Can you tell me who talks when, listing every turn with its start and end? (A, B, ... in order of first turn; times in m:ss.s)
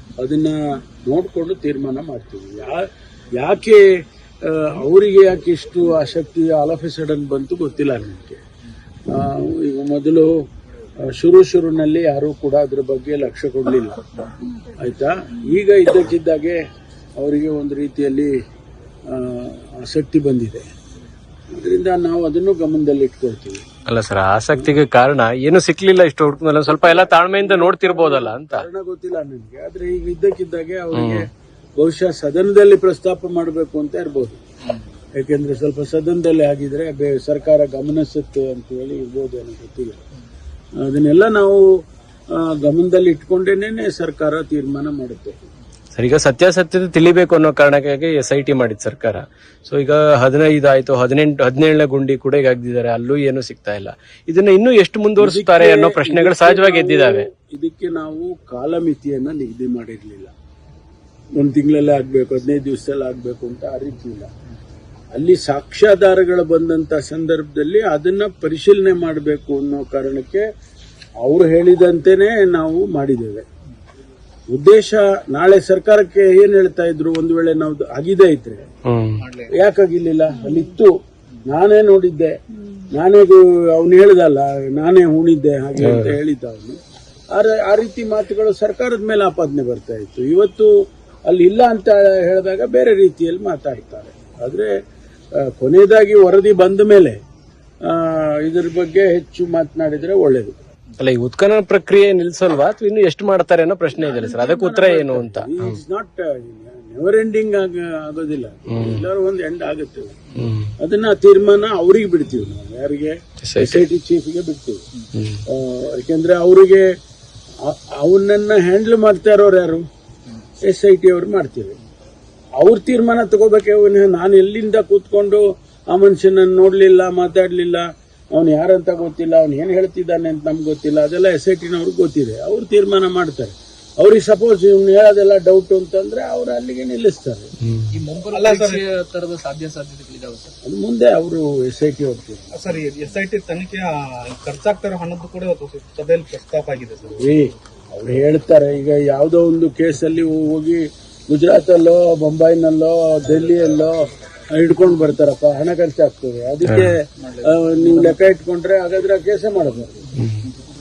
0:00.2-0:03.9 A
0:04.4-0:08.4 A
0:09.1-0:10.4 A
0:11.0-0:14.1 A
0:14.8-0:16.6 A
0:17.2-0:18.3 A
0:19.1-0:20.7 A
0:21.5-0:23.6 A
0:23.9-0:28.6 B
0:26.7-0:34.4 A
0:30.9-0:31.3 B
0:35.2-0:40.0 A
0:40.8-0:41.6 A
0:42.3-0:45.4 A
0:46.0-0:57.3 B
0:55.2-1:00.3 A
1:01.4-1:04.3 A
1:05.1-1:10.4 A
1:11.2-1:13.4 A
1:14.5-1:18.7 A
1:18.8-1:19.2 B
1:19.2-1:19.5 C
1:19.5-1:20.9 A
1:21.5-1:22.4 A
1:22.9-1:26.8 A
1:25.8-1:26.2 B
1:27.3-1:30.7 A
1:31.3-1:34.7 A
1:35.4-1:37.2 A
1:37.9-1:40.5 A
1:41.0-1:45.8 B
1:44.0-1:50.2 A
1:48.7-1:49.0 B
1:50.4-1:50.7 B
1:50.8-1:54.8 A
1:53.4-1:53.8 B
1:55.1-1:55.4 B
1:55.5-1:56.9 A
1:57.6-1:59.8 A
2:00.6-2:01.8 A
2:02.6-2:17.5 A
2:17.6-2:17.9 B
2:17.9-2:20.5 D
2:18.1-2:18.8 C
2:20.6-2:22.4 A
2:22.5-2:27.4 C
2:27.2-2:34.0 A
2:34.5-2:40.1 A
2:36.6-2:36.9 B
2:40.1-2:40.5 B